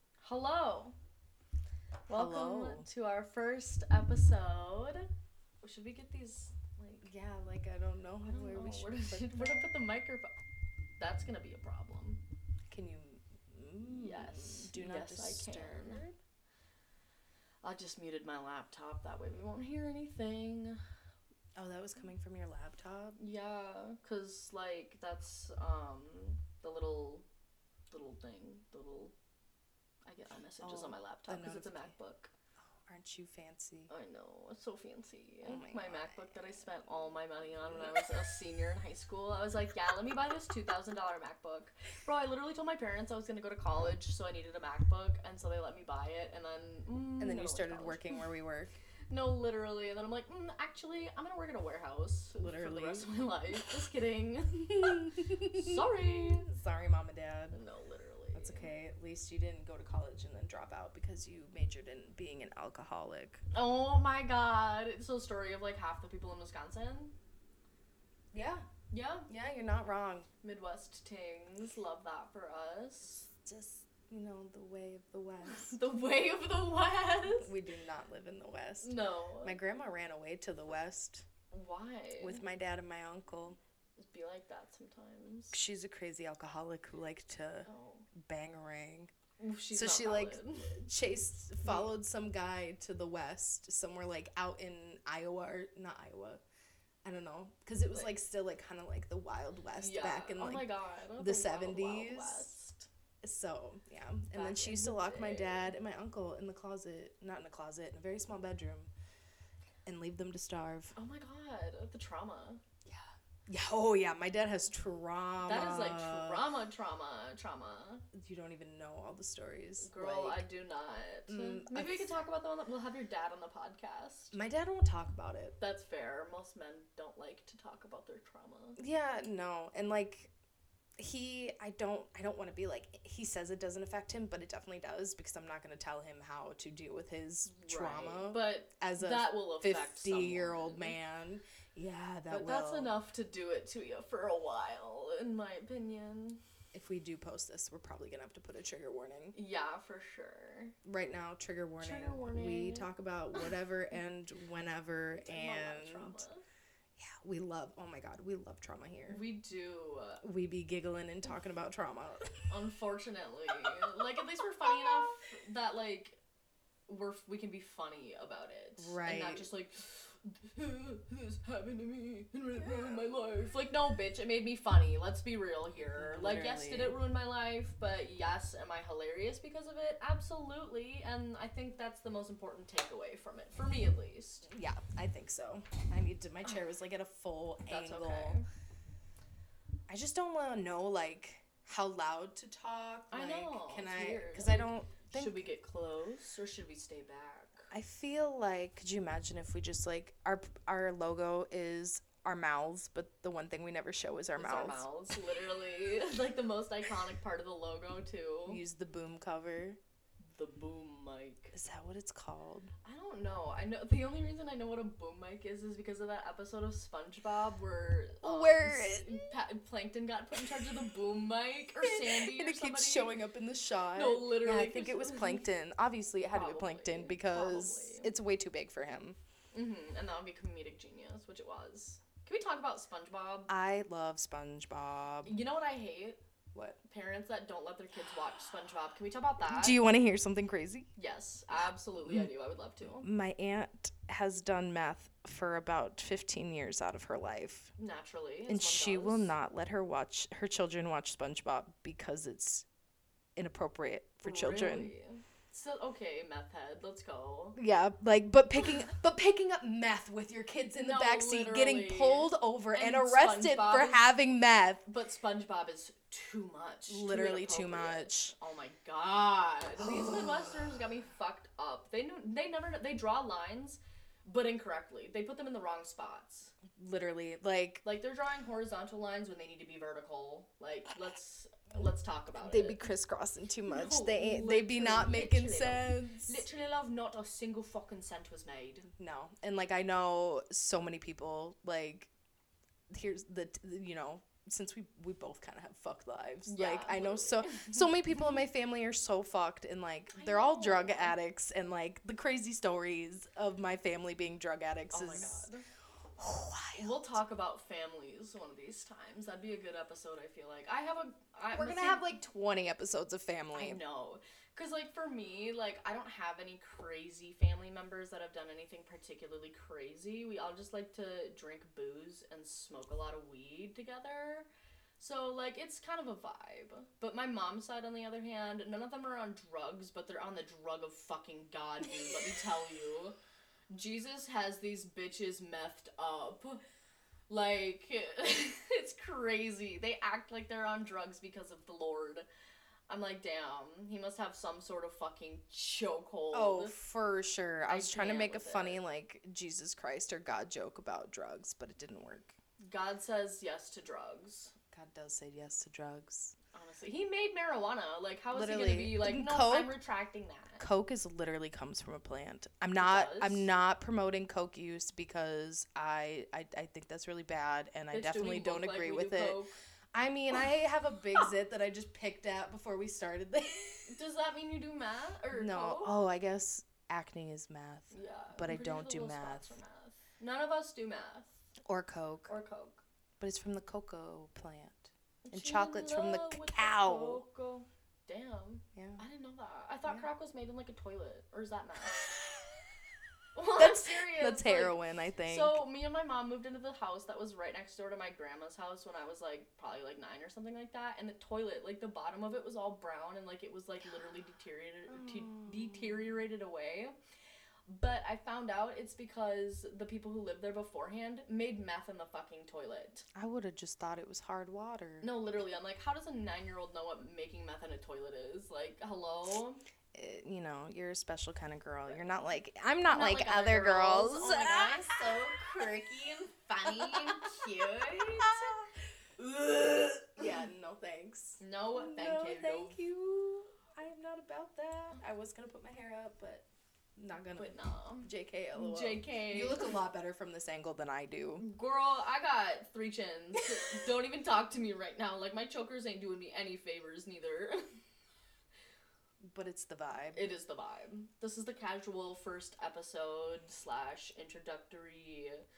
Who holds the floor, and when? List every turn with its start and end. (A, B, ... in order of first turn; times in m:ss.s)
0:00.2-0:01.0 A
0:02.1-0:05.1 A
0:02.1-0:02.9 B
0:05.6-0:07.1 A
0:07.0-0:09.7 B
0:08.3-0:10.3 A
0:11.0-0:12.2 A
0:12.7-0:16.2 B
0:13.9-0:16.0 A
0:17.6-0:20.8 A
0:21.6-0:23.2 B
0:23.2-0:27.3 A
0:27.9-0:29.1 A
0:30.1-0:32.3 A
0:30.6-0:31.9 B
0:32.6-0:33.9 B
0:33.9-0:48.2 A
0:35.4-0:36.7 B
0:37.6-0:37.9 B
0:47.2-0:48.8 B
0:49.1-0:56.5 A
0:52.4-0:53.1 B
0:54.7-0:57.6 B
0:57.5-0:58.7 A
0:58.3-1:03.4 B
1:03.5-1:07.2 A
1:08.3-1:08.7 B
1:08.9-1:09.3 A
1:09.3-1:10.3 B
1:10.4-1:13.3 A
1:13.4-1:15.7 B
1:15.4-1:17.5 A
1:17.4-1:21.3 B
1:18.8-1:19.6 A
1:21.5-1:22.4 A
1:22.2-1:23.6 B
1:24.0-1:25.6 A
1:25.5-1:29.1 B
1:27.7-1:28.1 A
1:29.4-1:30.8 A
1:29.7-1:36.4 B
1:31.6-1:31.9 A
1:37.0-1:42.5 B
1:39.8-1:42.9 A
1:43.2-1:48.9 B
1:44.3-1:45.7 A
1:49.8-1:50.9 B
1:51.0-1:52.6 A
1:52.8-1:56.4 B
1:55.4-1:58.1 A
1:58.1-2:00.4 B
1:59.8-2:04.4 A
2:01.3-2:02.1 B
2:04.3-2:05.6 B
2:05.6-2:08.8 A
2:08.8-2:10.3 B
2:11.0-2:22.9 B
2:17.5-2:21.0 A
2:22.3-2:26.4 A
2:26.7-2:29.4 B
2:29.3-2:30.8 A
2:30.8-2:36.2 B
2:31.8-2:33.5 A
2:35.2-2:36.4 A
2:37.0-2:39.2 B
2:39.1-2:40.2 A
2:40.2-2:42.4 B
2:42.5-2:46.2 A
2:44.7-2:45.1 B
2:46.9-3:04.5 A
2:48.8-2:49.5 B
2:55.8-2:57.0 B
3:04.5-3:08.4 B
3:07.7-3:08.5 A
3:09.9-3:15.4 B
3:13.1-3:17.7 A
3:17.7-3:24.8 B
3:24.4-3:28.6 A
3:28.5-3:29.8 B
3:30.3-3:31.5 A
3:31.5-3:32.7 B
3:32.8-3:43.2 A
3:38.2-3:39.3 B
3:41.8-3:49.2 B
3:43.9-3:45.5 A
3:46.3-3:48.1 A
3:49.5-3:53.5 A
3:53.5-3:55.4 B
3:55.2-3:56.2 A
3:56.5-3:56.8 B
3:56.8-3:59.8 A
3:59.5-4:00.9 B
4:01.0-4:03.1 A
4:03.0-4:07.7 B
4:07.8-4:09.3 A
4:08.5-4:12.6 B
4:13.4-4:14.9 B
4:14.2-4:17.6 A
4:17.6-4:24.9 B
4:20.8-4:24.1 A
4:24.9-4:36.5 A
4:26.9-4:28.3 B
4:29.9-4:30.2 B
4:36.8-4:37.8 B
4:37.8-4:42.8 A
4:42.4-4:46.4 B
4:43.7-4:48.9 A
4:49.0-4:52.1 B
4:52.9-5:05.5 B
4:56.5-4:57.9 A
5:00.1-5:01.2 A
5:04.9-5:05.6 A
5:06.2-5:07.2 B
5:06.8-5:12.1 A
5:11.5-5:13.8 B
5:13.6-5:24.5 A
5:25.0-5:33.2 A
5:33.7-5:36.6 A
5:37.3-5:42.3 A
5:42.9-5:46.8 A
5:46.3-5:52.4 B
5:47.7-5:48.8 A
5:52.7-5:54.5 A
5:54.7-5:56.4 B
5:56.5-6:00.6 A
5:58.3-5:59.7 B
6:00.6-6:09.4 B
6:02.8-6:03.5 A
6:07.9-6:09.6 A
6:09.9-6:14.0 B
6:13.9-6:16.0 A
6:15.3-6:19.6 B
6:17.9-6:21.5 A
6:21.6-6:22.4 B
6:22.3-6:22.8 A
6:23.2-6:27.2 B
6:25.2-6:32.0 A
6:28.8-6:29.0 B
6:33.4-6:47.0 A
6:33.6-6:35.6 B
6:44.9-6:46.2 B
6:47.7-6:53.1 A
6:53.2-6:55.1 B
6:55.0-6:59.6 A
6:59.9-7:05.6 B
7:01.9-7:02.2 A
7:02.9-7:08.6 A
7:06.6-7:16.5 B
7:09.2-7:10.2 A
7:11.4-7:12.8 A
7:17.0-7:21.4 B
7:17.4-7:19.8 A
7:21.4-7:27.7 A
7:29.2-7:30.2 B
7:30.1-7:35.4 A